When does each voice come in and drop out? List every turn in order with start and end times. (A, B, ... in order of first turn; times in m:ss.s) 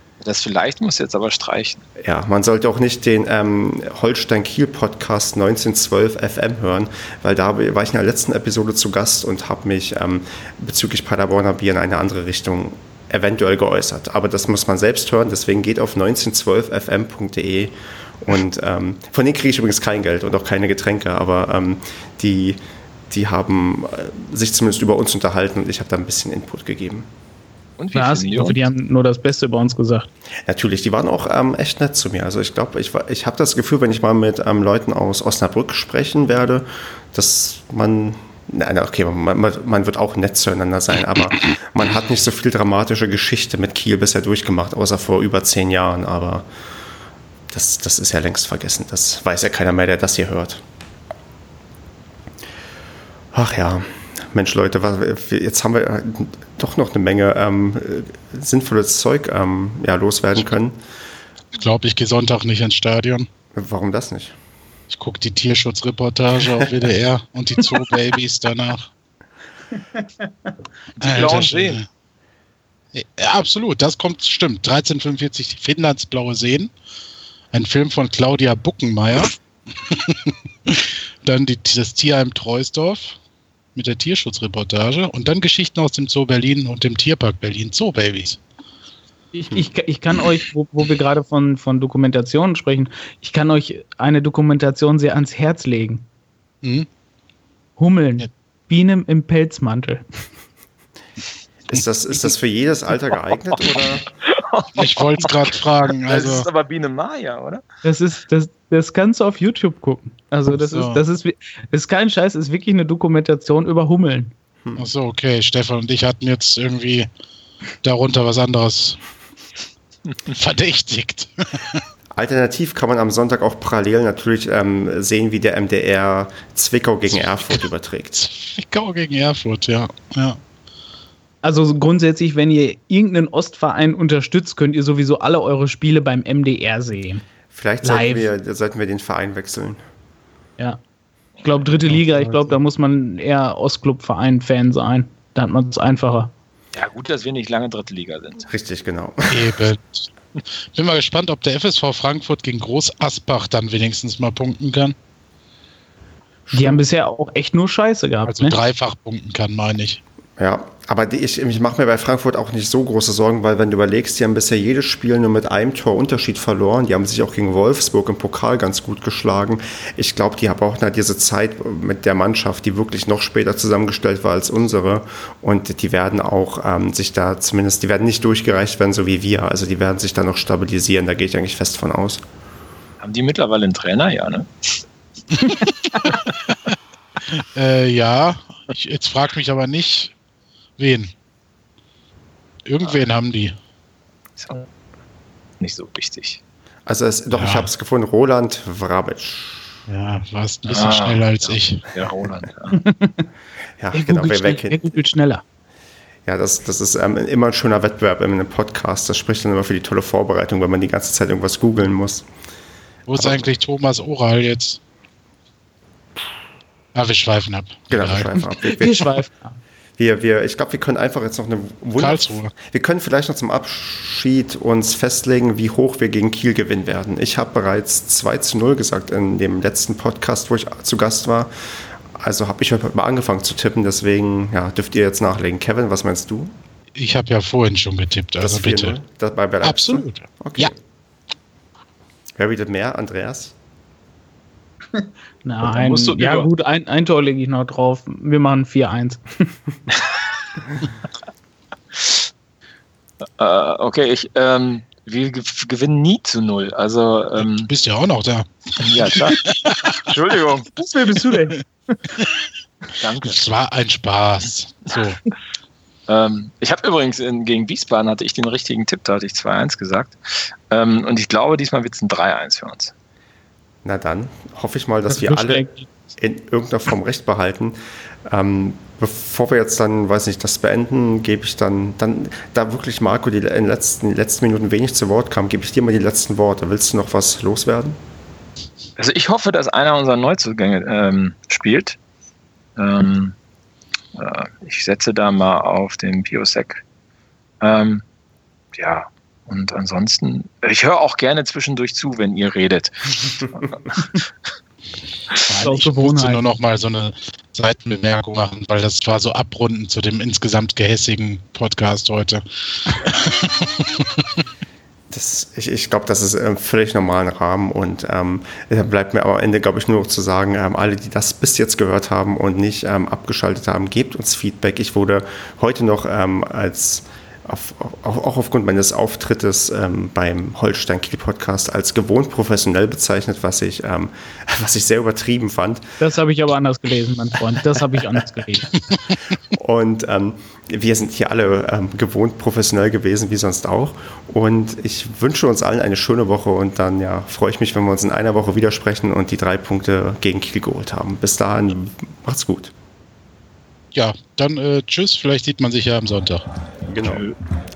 0:00.2-0:01.8 A
0:02.0-0:27.1 B
0:27.8-0:28.6 A
0:27.9-0:30.1 C
0:30.5-0:46.5 B
0:47.5-0:50.6 B
0:53.3-1:00.8 B
1:01.6-1:03.3 D
1:03.6-1:04.4 B
1:04.9-1:08.9 D
1:11.0-1:11.8 A
1:11.0-1:11.9 D
1:12.9-1:16.7 D
1:17.5-1:23.2 D
1:23.8-1:28.4 D
1:29.3-1:36.0 C
1:36.6-1:36.9 D
1:37.8-1:40.0 C
1:41.7-1:44.1 B
1:44.3-1:47.6 A
1:44.8-1:46.5 D
1:47.8-1:54.3 C
1:50.6-1:51.0 D
1:54.6-1:54.9 B
1:54.8-1:57.1 D
1:57.8-1:59.0 D
2:00.3-2:01.8 D
2:02.1-2:08.3 B
2:08.2-2:10.4 D
2:11.4-2:17.2 C
2:17.5-2:19.8 B
2:17.8-2:18.3 C
2:21.4-2:26.3 C
2:21.9-2:22.6 D
2:26.7-2:28.5 A
2:28.4-2:29.6 B
2:29.3-2:30.1 D
2:30.7-2:35.0 D
2:36.5-2:36.8 B
2:36.5-2:38.6 C
2:38.3-2:40.0 D
2:40.4-3:02.2 B
3:03.0-3:04.8 A
3:05.5-3:06.6 D
3:07.3-3:10.2 D
3:10.8-3:11.1 D
3:12.6-3:13.6 D
3:14.4-3:14.7 A
3:15.6-3:16.4 A
3:16.9-3:19.8 B
3:17.3-3:17.7 D
3:19.9-3:21.9 D
3:20.7-3:22.8 A
3:22.7-3:23.3 C
3:23.8-3:25.0 B
3:23.9-3:25.4 C
3:26.3-3:32.3 B
3:33.1-3:34.8 D
3:33.1-3:33.5 B
3:36.9-3:38.3 D
3:37.9-3:39.1 B
3:38.6-3:39.6 C
3:40.0-3:56.6 B
3:42.0-3:42.5 D
3:57.0-3:59.0 D
3:58.4-4:00.8 B
3:59.6-4:00.7 D
4:02.4-4:03.5 B
4:05.0-4:09.2 C
4:05.7-4:06.5 A
4:09.9-4:10.2 A
4:12.0-4:12.2 A
4:13.4-4:17.7 A
4:17.4-4:19.9 D
4:18.8-4:20.7 A
4:20.8-4:21.6 C
4:23.0-4:23.4 A
4:23.2-4:25.2 D
4:26.1-4:32.9 A
4:33.8-4:35.6 B
4:35.1-4:35.9 C
4:36.2-4:48.0 B
4:49.0-4:52.0 A
4:52.8-4:53.4 A
4:54.2-4:56.8 A
4:57.6-4:58.0 A
4:58.8-5:04.2 A
5:05.5-5:14.4 D
5:05.5-5:06.4 C
5:15.1-5:35.8 B
5:36.0-5:38.7 C
5:39.3-5:52.7 B
5:53.9-5:56.4 D
5:56.9-5:57.3 B
5:57.0-5:57.3 A